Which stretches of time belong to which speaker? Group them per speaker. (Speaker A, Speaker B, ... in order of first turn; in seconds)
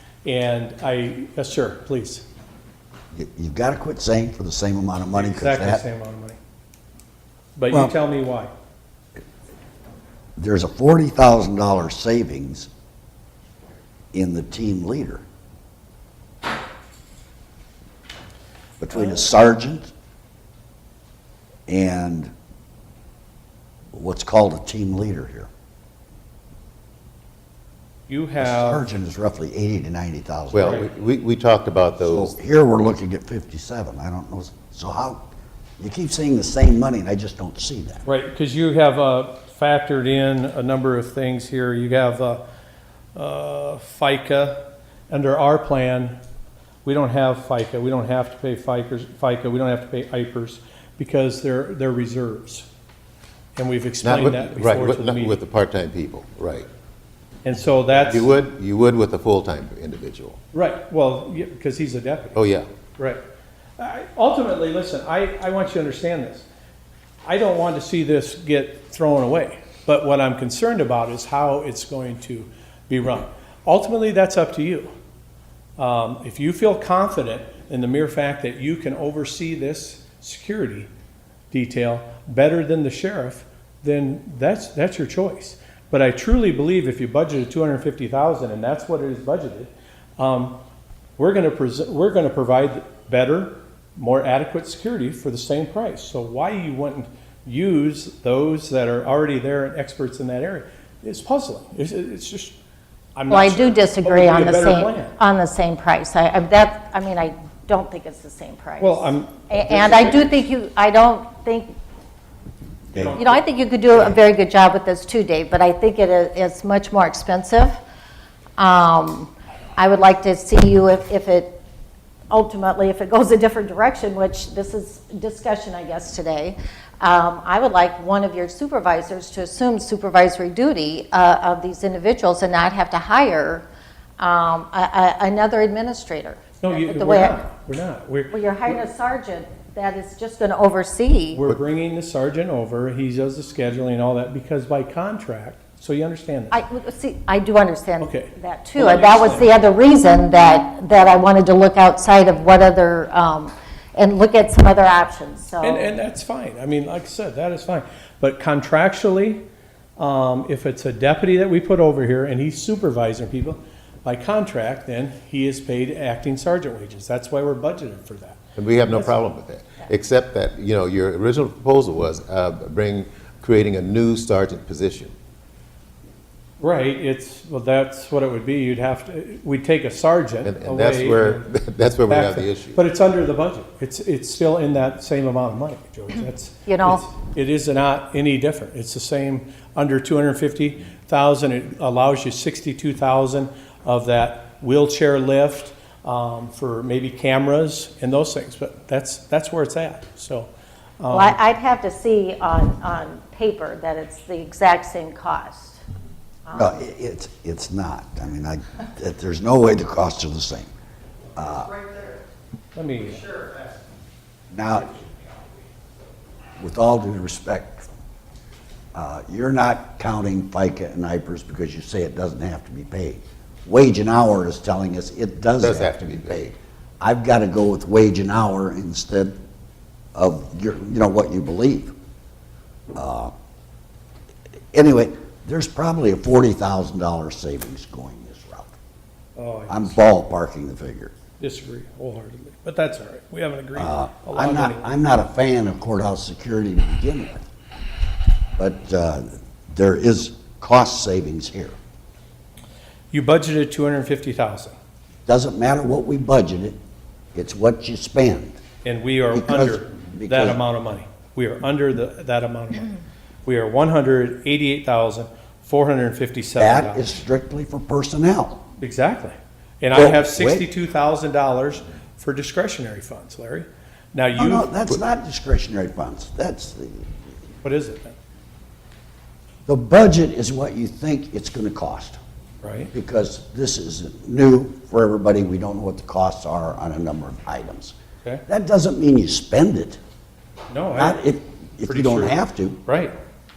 Speaker A: 0.2-2.2, 5.1-6.4, 7.5-8.5, 28.1-28.8, 38.0-42.4, 43.1-46.1, 46.8-52.7, 53.5-55.4, 57.4-58.3, 60.5-62.4, 63.8-66.5, 67.2-74.9, 75.8-80.9, 81.5-90.5, 91.2-102.5, 103.2-105.1, 108.8-110.4, 112.9-114.2, 136.6-138.8, 141.3-146.6, 148.0-149.6, 155.6-159.4, 160.0-168.4, 176.6-181.5, 182.1-201.4, 212.7-213.4, 239.3-240.0, 241.4-244.9, 253.1-254.7, 258.8-262.9, 263.4-267.0, 268.8-274.7, 277.6-278.2, 282.6-282.9, 290.7-291.2, 291.8-293.1
Speaker B: 3.1-5.8, 10.4-12.7, 14.1-15.2, 18.8-19.9, 21.7-22.3, 23.9-25.5, 28.4-30.8, 32.0-35.2, 35.8-38.0, 112.9-113.2, 206.5-210.7, 211.3-211.8, 214.5-215.0, 216.6-218.0, 218.9-229.3, 230.1-231.9, 232.9-233.3, 234.7-238.8, 239.7-241.1, 243.8-247.4, 248.6-251.7, 255.3-256.8, 257.3-258.6, 259.3-260.6, 266.6-268.6, 269.9-270.6, 274.4-277.1, 279.6-282.2, 282.9-287.9, 288.5-290.0, 290.9-292.8
Speaker C: 30.5-32.3, 54.0-56.7, 57.9-60.4, 62.3-62.6, 168.6-175.1, 180.4-182.8, 225.6-226.4
Speaker D: 103.3-111.7, 113.1-117.8, 118.6-121.6, 122.3-133.7, 134.2-137.4, 138.3-141.4, 146.5-155.9, 186.7-187.0, 201.1-205.8